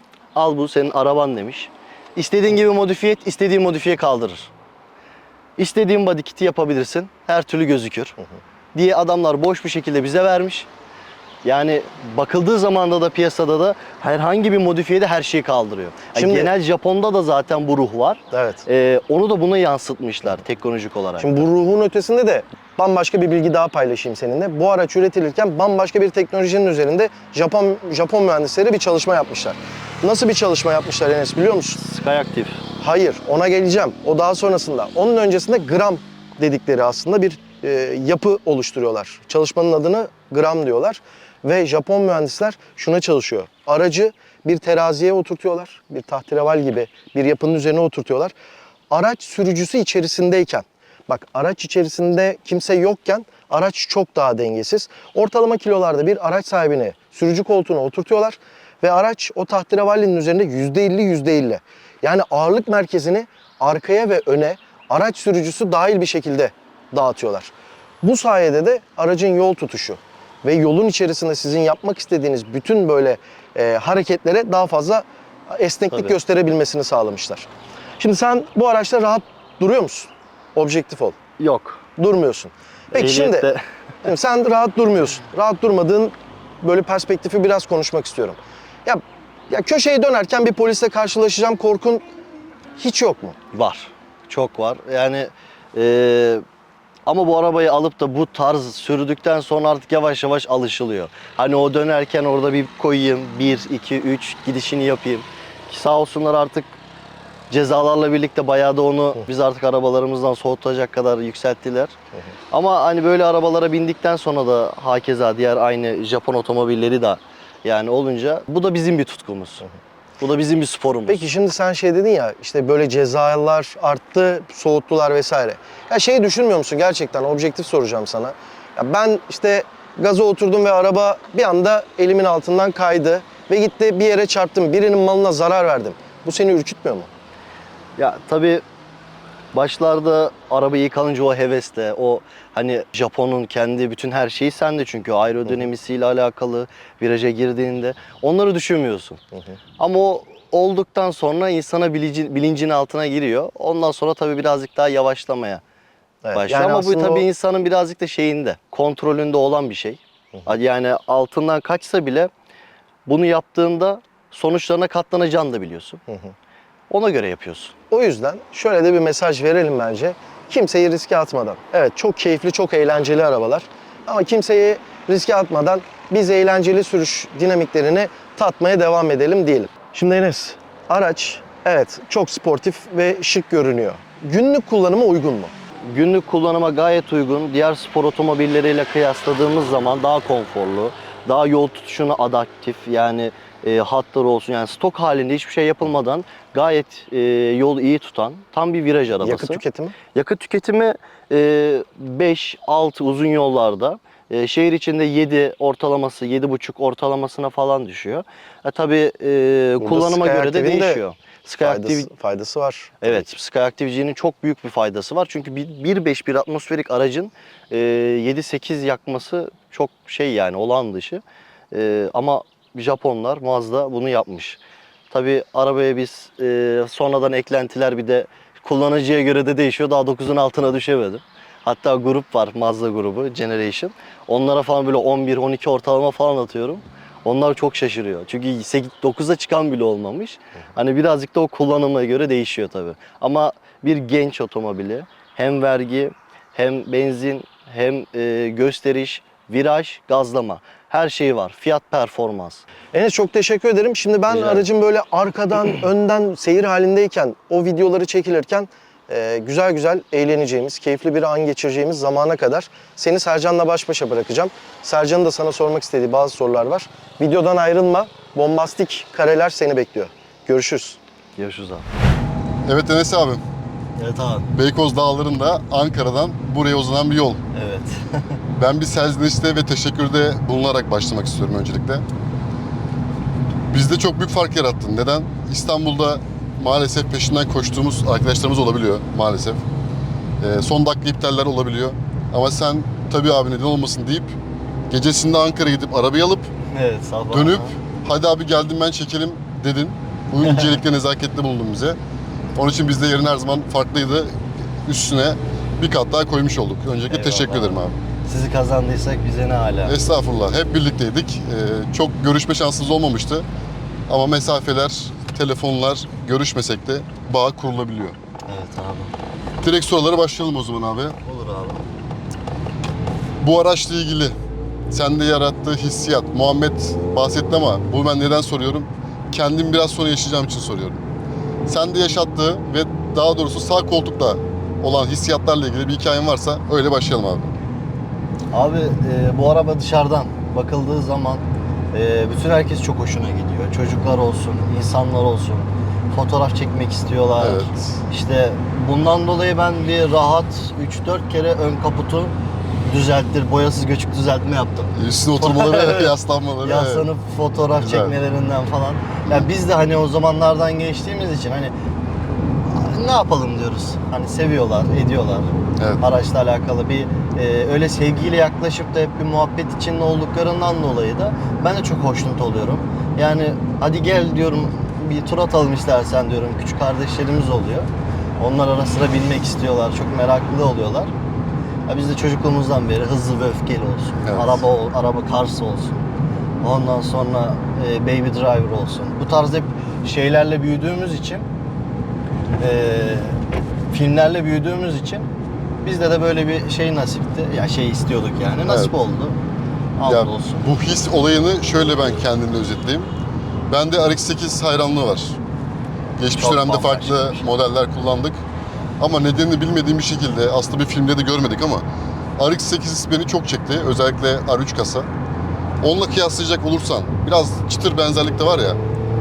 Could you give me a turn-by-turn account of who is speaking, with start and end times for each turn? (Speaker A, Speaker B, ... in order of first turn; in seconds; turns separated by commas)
Speaker A: 0.3-4.5, Speaker A: 5.6-8.2, Speaker A: 8.7-10.7, Speaker A: 11.4-21.5, Speaker B: 16.2-16.5, Speaker B: 18.3-18.6, Speaker B: 21.2-31.8, Speaker A: 31.8-32.6, Speaker B: 32.8-48.3, Speaker B: 48.9-77.5, Speaker A: 75.9-76.2, Speaker B: 78.0-81.2, Speaker A: 81.4-81.8, Speaker B: 82.0-83.5, Speaker A: 82.9-83.6, Speaker B: 84.0-92.0, Speaker B: 92.8-93.4, Speaker A: 93.5-96.4, Speaker A: 97.1-106.7, Speaker A: 107.5-112.0, Speaker A: 112.5-119.7, Speaker A: 120.2-121.3, Speaker B: 121.1-137.1, Speaker A: 138.0-138.6, Speaker A: 139.5-149.2, Speaker A: 149.8-155.6, Speaker B: 156.2-157.3, Speaker A: 156.3-162.3, Speaker A: 163.1-166.0, Speaker A: 166.9-167.7, Speaker B: 167.9-185.5, Speaker A: 185.9-199.6, Speaker B: 199.2-199.9, Speaker A: 200.1-212.1, Speaker B: 209.8-211.0, Speaker B: 211.6-213.2, Speaker A: 213.0-224.6, Speaker A: 225.1-252.7, Speaker B: 252.9-271.0, Speaker A: 254.3-254.7, Speaker A: 271.4-271.9, Speaker C: 272.7-273.4, Speaker A: 274.0-274.5, Speaker C: 274.5-277.4, Speaker A: 277.5-278.4, Speaker C: 278.6-282.1, Speaker C: 283.7-289.6, Speaker C: 290.4-294.4, Speaker C: 294.9-296.5, Speaker A: 296.7-297.8, Speaker C: 297.3-302.0, Speaker A: 300.4-300.8, Speaker C: 302.6-307.9, Speaker A: 307.1-310.0, Speaker C: 309.9-313.4, Speaker C: 314.1-318.2, Speaker A: 318.5-319.1, Speaker C: 319.6-321.2, Speaker A: 321.2-321.9, Speaker C: 323.4-324.3, Speaker C: 324.9-331.0, Speaker C: 331.7-337.5, Speaker A: 338.5-361.7, Speaker C: 347.4-348.0, Speaker C: 354.9-357.1, Speaker C: 357.8-358.1, Speaker A: 362.7-377.9, Speaker C: 365.8-366.0, Speaker A: 378.4-381.1, Speaker A: 381.9-386.1, Speaker C: 384.2-384.6, Speaker A: 386.6-391.5, Speaker A: 392.6-393.4, Speaker A: 393.9-395.3, Speaker A: 395.8-399.4, Speaker C: 398.7-398.9, Speaker A: 400.0-400.6, Speaker C: 400.1-403.1, Speaker C: 403.7-405.4, Speaker C: 406.2-408.4, Speaker A: 406.4-407.5, Speaker C: 409.0-411.9, Speaker C: 412.4-415.1, Speaker C: 415.8-418.8